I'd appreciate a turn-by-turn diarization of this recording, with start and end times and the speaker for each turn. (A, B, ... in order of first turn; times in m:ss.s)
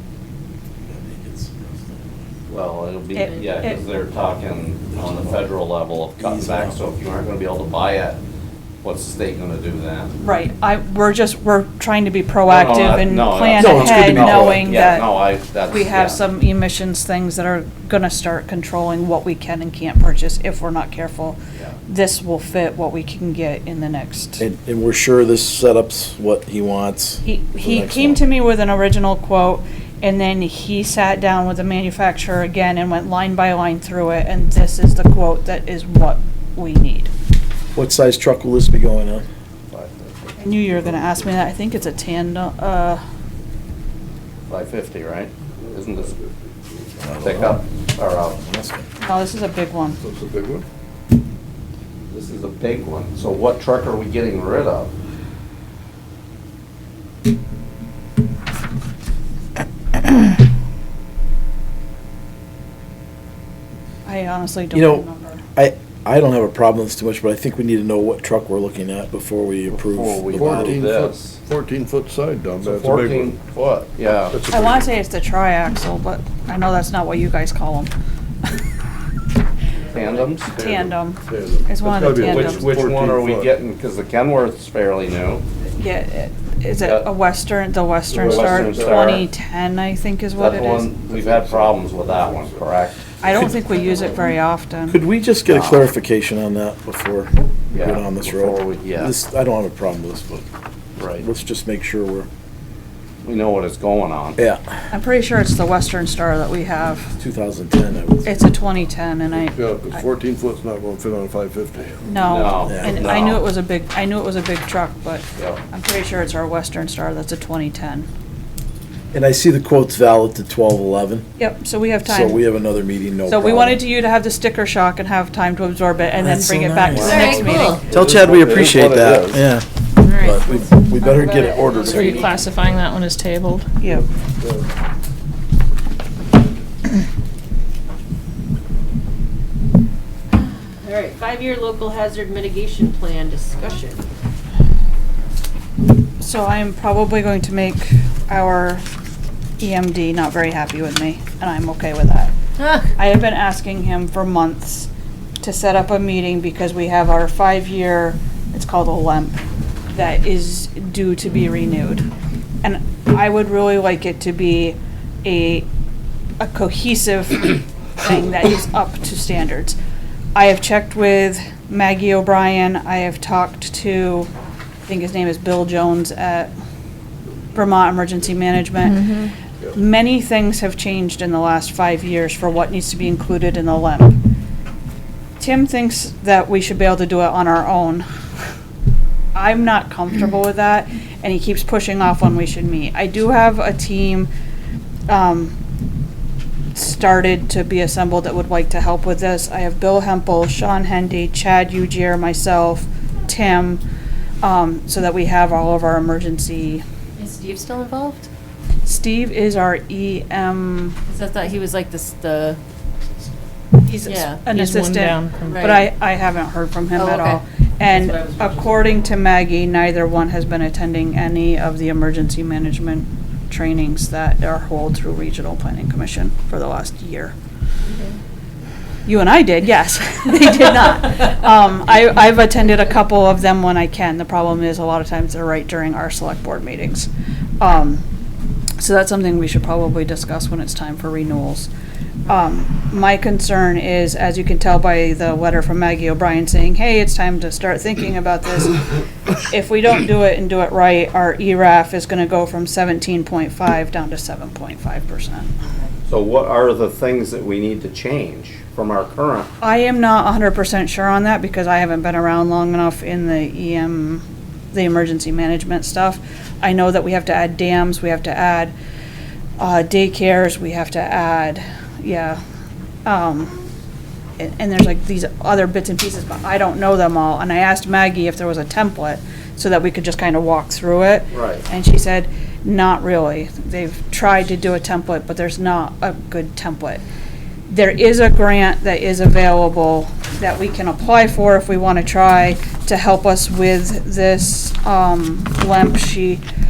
0:00.8-0:02.3 A
0:02.5-0:08.2 B
0:03.1-0:03.8 C
0:03.2-0:03.9 D
0:04.9-0:05.4 A
0:06.2-0:06.7 A
0:08.8-0:10.1 B
0:10.2-0:15.1 C
0:12.5-0:16.2 B
0:13.5-0:14.8 A
0:14.0-0:14.5 D
0:15.7-0:24.4 C
0:24.4-0:28.2 A
0:27.2-0:37.1 C
0:37.8-0:39.2 A
0:39.7-0:40.3 B
0:40.4-0:43.0 C
0:44.5-0:46.2 B
0:45.6-0:46.3 E
0:47.0-0:47.6 A
0:47.2-0:48.4 B
0:48.4-0:48.9 A
0:49.0-0:50.0 C
0:50.0-0:50.6 E
0:52.1-0:54.9 B
1:04.1-1:05.4 C
1:04.7-1:10.8 A
1:09.8-1:11.4 B
1:10.3-1:13.4 E
1:10.4-1:10.8 D
1:12.8-1:14.4 B
1:14.2-1:14.9 E
1:14.5-1:17.9 C
1:19.9-1:20.4 D
1:19.9-1:20.5 B
1:20.5-1:23.5 E
1:20.5-1:22.7 C
1:22.3-1:23.5 D
1:22.3-1:25.4 B
1:25.7-1:30.9 C
1:28.1-1:29.1 E
1:28.3-1:29.2 B
1:30.4-1:33.0 B
1:31.0-1:32.8 E
1:31.3-1:31.9 D
1:33.2-1:35.0 C
1:34.9-1:40.5 A
1:37.7-1:39.1 B
1:41.0-1:41.2 B
1:41.2-1:42.3 A
1:43.2-1:44.4 B
1:44.9-1:47.2 C
1:47.2-1:48.4 A
1:48.2-1:50.0 C
1:49.5-1:52.0 E
1:52.0-1:58.1 C
1:52.2-1:52.8 D
1:52.3-1:53.4 B
1:52.6-1:52.9 A
1:59.1-2:01.3 A
2:01.4-2:02.4 C
2:02.0-2:03.8 A
2:03.3-2:07.8 C
2:06.2-2:07.2 A
2:06.9-2:09.5 E
2:07.0-2:07.8 D
2:07.9-2:12.2 A
2:10.0-2:10.4 F
2:11.0-2:12.3 D
2:11.8-2:13.7 F
2:12.0-2:12.3 E
2:13.8-2:14.0 C
2:14.4-2:14.7 E
2:20.8-2:24.0 D
2:26.2-2:28.8 C
2:29.6-2:32.3 C
2:32.9-2:34.9 C
2:35.4-2:39.4 C
2:39.9-2:42.1 C
2:42.6-2:45.7 C
2:46.4-2:49.8 C
2:50.3-2:54.3 C
2:54.8-2:56.5 C
2:57.5-2:59.1 C
2:59.7-3:04.2 C
3:05.4-3:08.0 C
3:09.3-3:14.3 C
3:15.1-3:15.6 C
3:16.8-3:23.8 C
3:24.4-3:26.8 C
3:27.2-3:28.3 D
3:28.8-3:31.0 C
3:31.1-3:32.6 D
3:33.7-3:47.3 C
3:34.1-3:34.4 D
3:34.4-3:35.7 F
3:35.5-3:35.8 D
3:37.0-3:37.4 D
3:49.1-3:57.1 C
3:57.6-3:58.0 C
3:58.8-4:01.7 C
4:02.2-4:15.5 C
4:16.1-4:19.5 B
4:19.6-4:28.7 C
4:29.6-4:32.4 C
4:33.0-4:33.6 C
4:34.4-4:47.0 C
4:41.3-4:41.6 B
4:47.7-4:56.4 C